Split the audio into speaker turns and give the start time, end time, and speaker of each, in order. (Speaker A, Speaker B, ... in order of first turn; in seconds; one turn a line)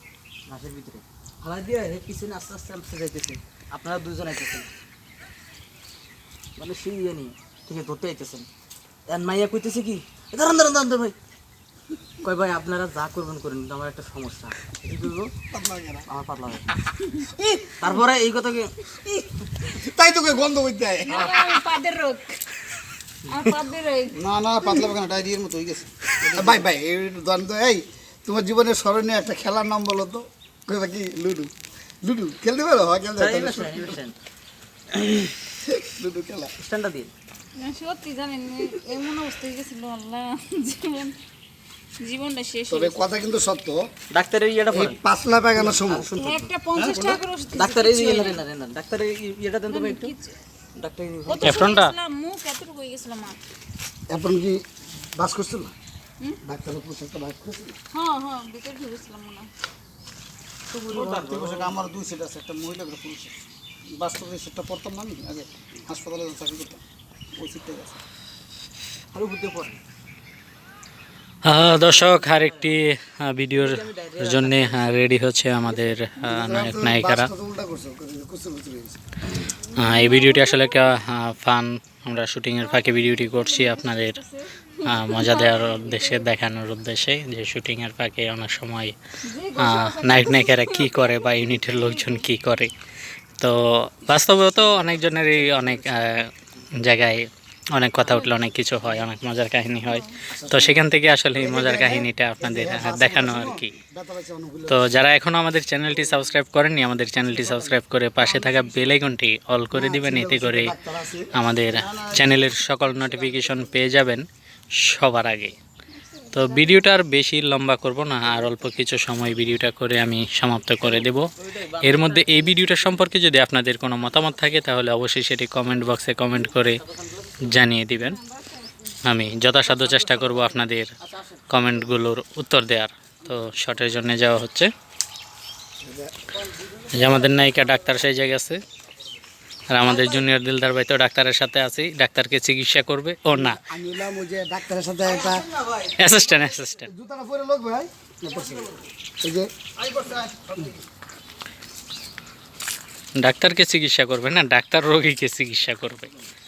Speaker A: 0.5-1.9
Speaker B: 0.6-1.0
Speaker B: 2.1-3.4
Speaker A: 3.7-4.7
Speaker B: 3.9-4.3
Speaker B: 6.6-8.4
Speaker B: 9.1-11.1
Speaker B: 12.2-15.3
Speaker C: 15.5-16.1
Speaker B: 16.2-16.7
Speaker D: 17.0-17.2
Speaker C: 17.4-17.8
Speaker A: 17.8-18.1
Speaker B: 17.9-18.7
Speaker C: 19.7-21.6
Speaker D: 21.1-22.4
Speaker D: 23.3-24.2
Speaker A: 24.1-26.7
Speaker C: 26.3-31.5
Speaker C: 32.0-34.0
Speaker B: 33.2-34.1
Speaker C: 35.6-36.5
Speaker B: 36.6-37.1
Speaker D: 37.6-41.2
Speaker D: 42.0-43.0
Speaker C: 42.7-43.8
Speaker B: 44.1-45.0
Speaker C: 44.7-46.1
Speaker A: 45.6-46.2
Speaker D: 46.1-48.4
Speaker A: 46.8-47.2
Speaker B: 47.6-50.0
Speaker D: 49.7-50.3
Speaker B: 50.8-51.3
Speaker D: 51.2-53.4
Speaker E: 51.4-51.9
Speaker C: 54.1-54.6
Speaker C: 55.1-55.7
Speaker C: 56.4-57.8
Speaker D: 57.9-59.5
Speaker B: 60.7-61.7
Speaker A: 60.7-63.3
Speaker A: 63.9-66.8
Speaker A: 67.3-68.0
Speaker B: 69.1-69.8
Speaker E: 71.4-77.3
Speaker B: 72.0-72.6
Speaker B: 73.5-75.0
Speaker C: 76.3-79.0
Speaker D: 79.6-80.9
Speaker E: 79.8-84.2
Speaker D: 82.6-86.3
Speaker E: 84.8-88.9
Speaker D: 89.2-92.3
Speaker E: 89.6-92.7
Speaker E: 93.4-103.7
Speaker A: 94.7-96.1
Speaker D: 98.0-98.3
Speaker D: 99.8-100.1
Speaker C: 100.3-100.7
Speaker A: 100.4-100.8
Speaker C: 101.3-104.8
Speaker A: 103.3-103.7
Speaker E: 104.7-110.7
Speaker A: 105.9-106.2
Speaker A: 107.2-109.0
Speaker C: 109.7-111.3
Speaker E: 111.3-114.2
Speaker A: 111.7-113.8
Speaker E: 114.8-115.5
Speaker D: 116.0-116.9
Speaker E: 116.3-126.8
Speaker A: 118.2-118.6
Speaker A: 120.9-122.1
Speaker A: 126.8-127.3
Speaker E: 127.4-128.2
Speaker D: 128.0-129.0
Speaker E: 129.0-130.9
Speaker A: 129.7-130.5
Speaker A: 131.0-131.4
Speaker E: 131.5-134.7
Speaker C: 135.8-136.1
Speaker A: 136.4-137.5
Speaker E: 136.9-138.6
Speaker E: 139.7-143.6
Speaker A: 139.8-140.3
Speaker C: 143.3-145.4
Speaker A: 145.0-146.7
Speaker E: 146.0-146.9
Speaker C: 146.8-148.7
Speaker A: 148.2-148.8
Speaker C: 149.2-149.5
Speaker A: 149.8-150.8
Speaker E: 153.2-156.1